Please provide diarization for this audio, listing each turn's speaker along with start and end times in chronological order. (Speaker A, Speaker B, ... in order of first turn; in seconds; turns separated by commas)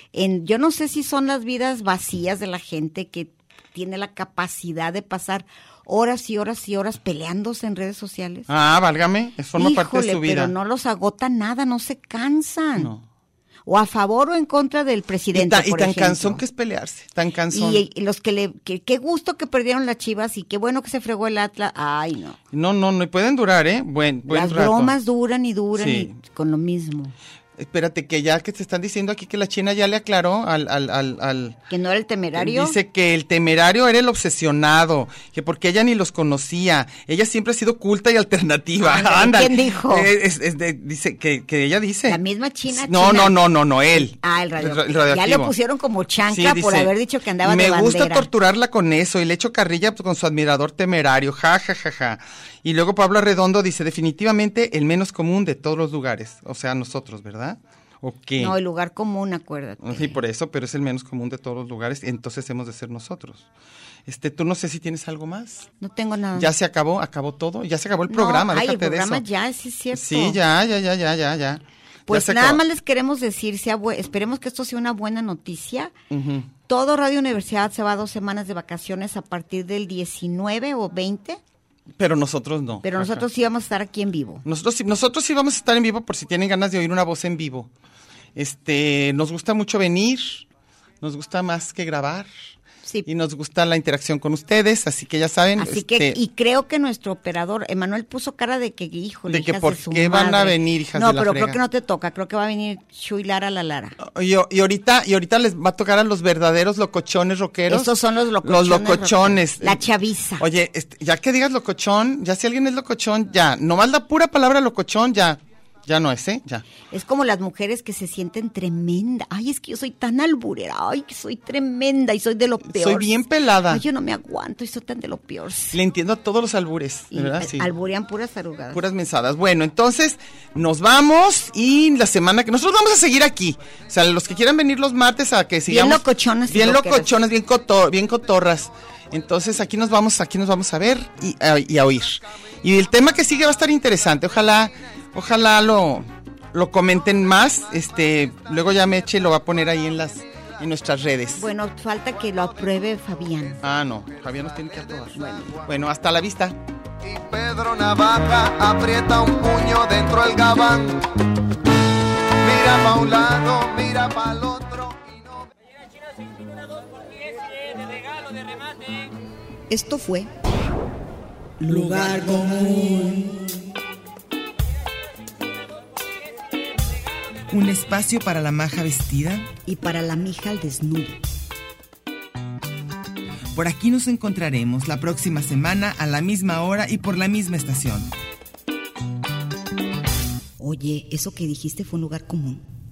Speaker A: 0.1-8.5, Speaker B: 8.5-10.5, Speaker A: 9.6-12.9, Speaker B: 12.8-13.0, Speaker A: 13.7-16.4, Speaker B: 15.3-17.8, Speaker A: 17.5-22.4, Speaker B: 22.5-24.9, Speaker A: 24.3-27.1, Speaker B: 25.8-26.1, Speaker B: 27.6-31.6, Speaker A: 31.7-32.8, Speaker B: 32.4-42.2, Speaker A: 38.8-40.1, Speaker A: 42.1-43.4, Speaker B: 42.7-45.5, Speaker A: 43.9-48.3, Speaker B: 46.3-58.5, Speaker A: 58.4-60.2, Speaker B: 59.8-63.5, Speaker B: 64.1-65.7, Speaker A: 65.8-66.5, Speaker B: 66.3-69.2, Speaker A: 68.1-70.4, Speaker B: 69.9-72.6, Speaker A: 72.1-75.9, Speaker B: 76.1-76.5, Speaker A: 76.7-81.4, Speaker B: 82.0-83.2, Speaker A: 82.8-84.5, Speaker B: 84.5-87.7, Speaker B: 88.4-90.5, Speaker B: 91.0-92.3, Speaker B: 93.1-96.2, Speaker A: 95.6-104.0, Speaker B: 99.3-101.6, Speaker B: 104.0-109.8, Speaker A: 107.7-110.4, Speaker B: 110.4-116.7, Speaker A: 116.9-123.1, Speaker B: 122.7-123.8, Speaker A: 123.7-125.8, Speaker B: 125.7-127.7, Speaker A: 127.1-128.8, Speaker B: 128.7-151.4, Speaker A: 135.7-137.1, Speaker A: 151.4-153.6, Speaker B: 153.6-156.6, Speaker A: 155.1-155.6, Speaker C: 157.0-161.0, Speaker C: 162.4-165.0, Speaker A: 169.7-170.3, Speaker A: 171.6-173.4, Speaker D: 177.5-179.5, Speaker A: 179.7-181.2, Speaker D: 183.5-188.1, Speaker A: 190.6-192.7